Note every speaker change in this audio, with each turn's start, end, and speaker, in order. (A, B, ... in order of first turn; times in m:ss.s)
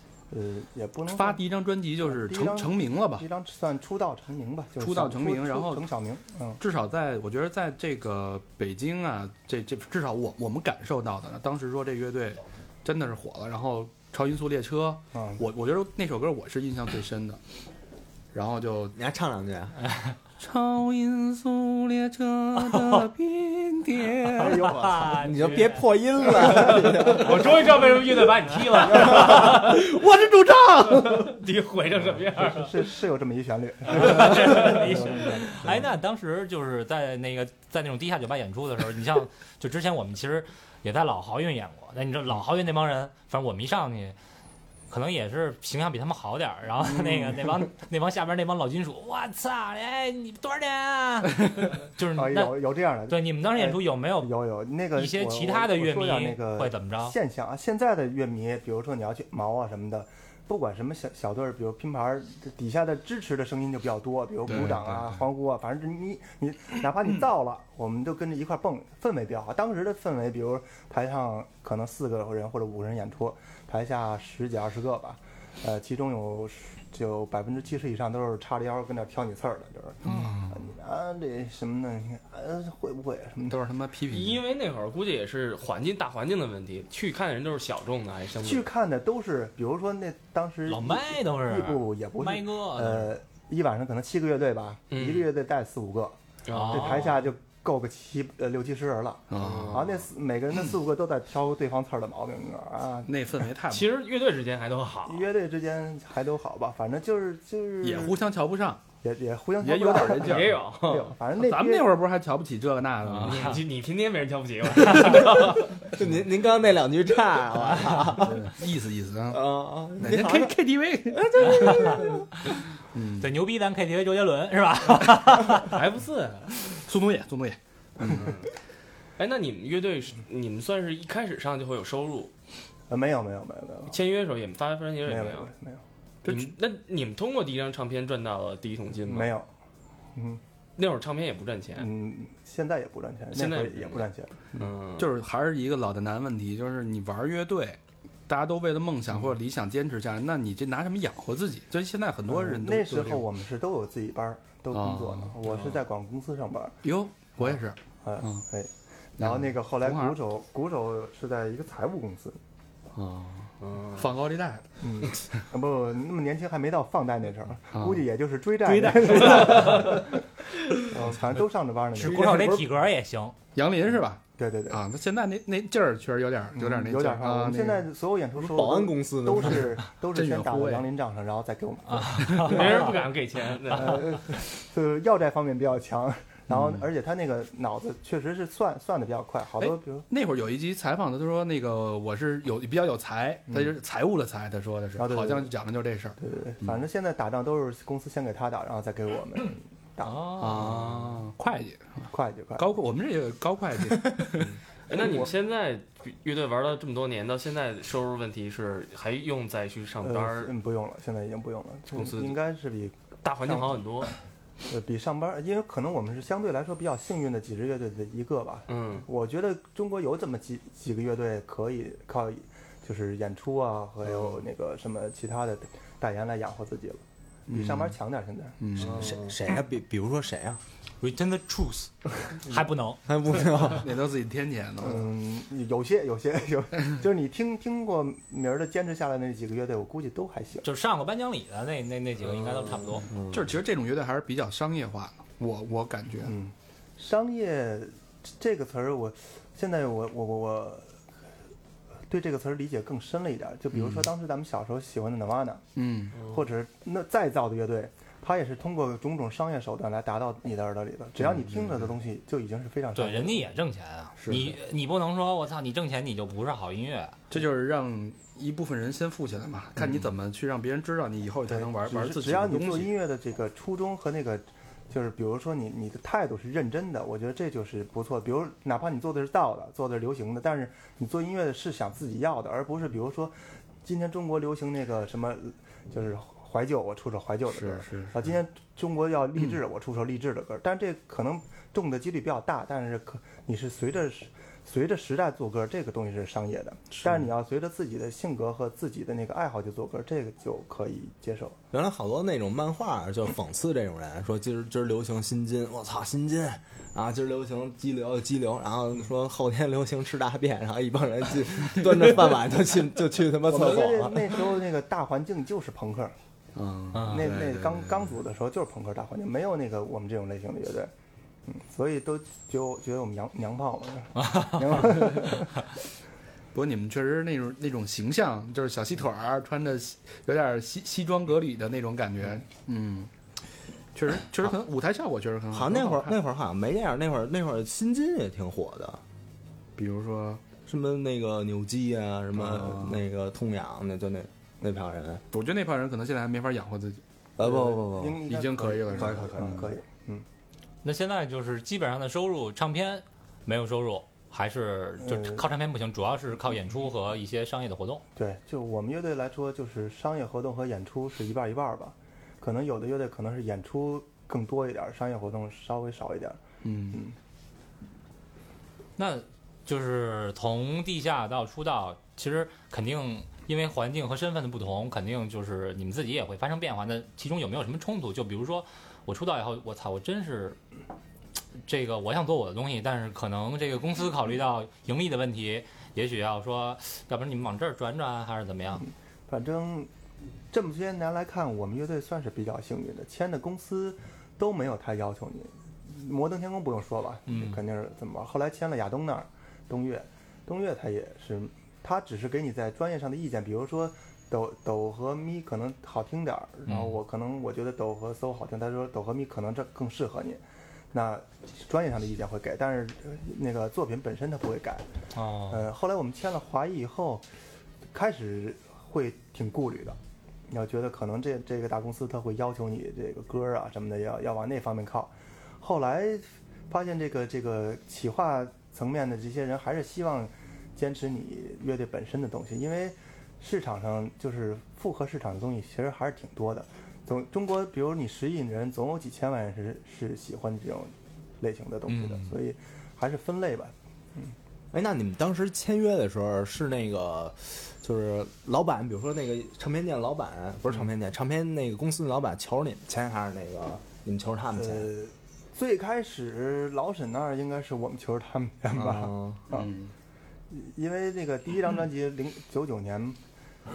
0:00.3-0:01.4 A
0:01.1-0:03.3 B
0:02.0-0:06.6 A
0:04.8-0:05.8 B
0:06.6-0:17.4 B
0:15.1-0:15.4 A
0:18.3-0:19.0 B
0:19.0-0:19.8 C
0:20.4-0:24.7 B
0:22.6-0:23.1 D
0:24.4-0:25.3 A
0:24.4-0:25.9 D
0:24.9-0:27.6 C
0:26.4-0:29.8 E
0:28.9-0:29.3 C
0:29.4-0:31.3 B
0:30.9-0:32.9 E
0:32.3-0:35.7 A
0:33.9-0:44.2 D
0:34.2-0:34.9 E
0:44.9-0:54.3 D
0:52.1-1:23.6 A
0:55.0-0:57.2 D
1:04.5-1:05.2 B
1:20.1-1:20.5 B
1:20.1-1:20.5 D
1:23.5-1:24.4 B
1:24.1-1:28.7 E
1:28.4-1:36.2 A
1:30.7-1:33.1 D
1:34.9-1:35.3 E
1:36.5-1:37.2 E
1:36.5-1:37.2 D
1:36.7-1:43.1 A
1:39.3-1:39.9 B
1:39.4-1:39.9 E
1:43.0-1:43.9 B
1:43.7-1:45.3 E
1:45.1-1:48.2 A
1:47.8-1:48.8 B
1:49.0-1:51.9 A
1:49.6-1:50.6 B
1:50.1-1:51.1 E
1:51.4-1:53.6 B
1:53.2-1:55.8 E
1:53.2-1:53.6 D
1:55.9-1:58.6 C
1:58.1-1:59.5 B
1:59.3-2:00.6 C
2:00.0-2:02.2 B
2:01.1-2:02.3 C
2:01.4-2:02.2 D
2:02.9-2:03.3 B
2:03.2-2:05.8 D
2:05.6-2:06.5 E
2:06.7-2:08.4 B
2:08.1-2:08.4 E
2:09.2-2:12.3 E
2:12.9-2:14.0 A
2:13.9-2:15.5 E
2:15.0-2:15.8 A
2:16.2-2:16.5 B
2:16.2-2:19.4 E
2:19.1-2:19.5 A
2:20.2-2:20.4 A
2:20.8-2:21.9 E
2:21.8-2:24.7 A
2:23.3-2:25.1 E
2:25.0-2:33.2 B
2:32.3-2:36.8 A
2:34.7-2:35.8 B
2:36.8-2:38.4 B
2:37.4-2:42.4 A
2:39.2-2:40.2 B
2:43.0-2:44.7 B
2:43.6-2:44.1 E
2:44.8-2:50.2 A
2:47.7-2:48.0 B
2:48.8-2:49.9 B
2:50.8-2:52.6 A
2:52.0-2:53.4 D
2:52.1-2:52.6 C
2:53.5-2:57.9 B
2:54.4-2:54.8 A
2:56.5-3:03.0 A
2:58.4-2:59.8 C
3:00.1-3:00.8 B
3:01.9-3:02.9 D
3:02.4-3:04.2 E
3:03.7-3:10.1 A
3:06.5-3:06.8 B
3:09.6-3:16.8 B
3:13.5-3:13.7 A
3:15.0-3:15.5 A
3:16.2-3:20.7 A
3:20.0-3:20.8 D
3:20.4-3:24.6 B
3:22.1-3:22.7 A
3:24.9-3:30.5 E
3:24.9-3:25.2 A
3:30.0-3:33.8 A
3:31.9-3:32.4 E
3:33.2-3:34.1 E
3:34.6-3:48.6 A
3:38.7-3:39.1 E
3:47.5-3:47.9 B
3:48.6-3:49.1 B
3:48.8-3:49.3 E
3:48.8-3:50.6 C
3:51.0-3:53.0 D
3:53.1-3:53.9 C
3:53.6-3:55.1 B
3:54.8-4:00.7 A
4:00.6-4:03.1 D
4:03.0-4:03.5 C
4:03.3-4:06.3 B
4:06.2-4:11.0 A
4:12.1-4:15.6 A
4:13.7-4:14.0 B
4:15.8-4:16.2 B
4:16.2-4:23.4 A
4:21.2-4:21.9 B
4:23.0-4:27.2 D
4:24.2-4:24.5 B
4:27.3-4:32.9 B
4:31.5-5:01.6 A
4:47.5-4:48.3 B
4:57.0-4:57.2 B
5:01.7-5:14.4 C
5:13.4-5:16.2 A
5:16.6-5:18.1 B
5:16.9-5:17.3 D
5:17.0-5:20.9 A
5:21.5-5:25.5 A
5:24.2-5:24.9 D
5:26.5-5:33.1 B
5:34.0-5:36.2 B
5:35.5-5:39.0 C
5:39.8-5:40.5 B
5:40.5-5:45.2 C
5:42.4-5:43.0 B
5:45.3-5:47.0 B
5:47.4-5:48.2 C
5:47.4-5:50.3 A
5:48.2-5:49.6 B
5:48.9-5:49.7 C
5:50.8-5:58.0 D
5:55.0-5:55.4 A
5:58.2-6:06.4 A
6:06.6-6:07.0 B
6:09.0-6:20.6 D
6:21.6-6:28.9 D
6:28.8-6:29.9 A
6:30.5-6:54.9 A
6:37.3-6:37.6 D
6:46.7-6:47.0 D
6:55.1-6:55.6 D
6:55.5-6:57.2 A
6:57.9-7:00.0 A
7:00.5-7:24.3 A
7:21.9-7:22.3 D
7:24.7-7:34.9 C
7:34.5-7:39.7 A
7:38.7-7:39.4 C
7:39.5-7:39.9 B
7:40.5-7:43.2 A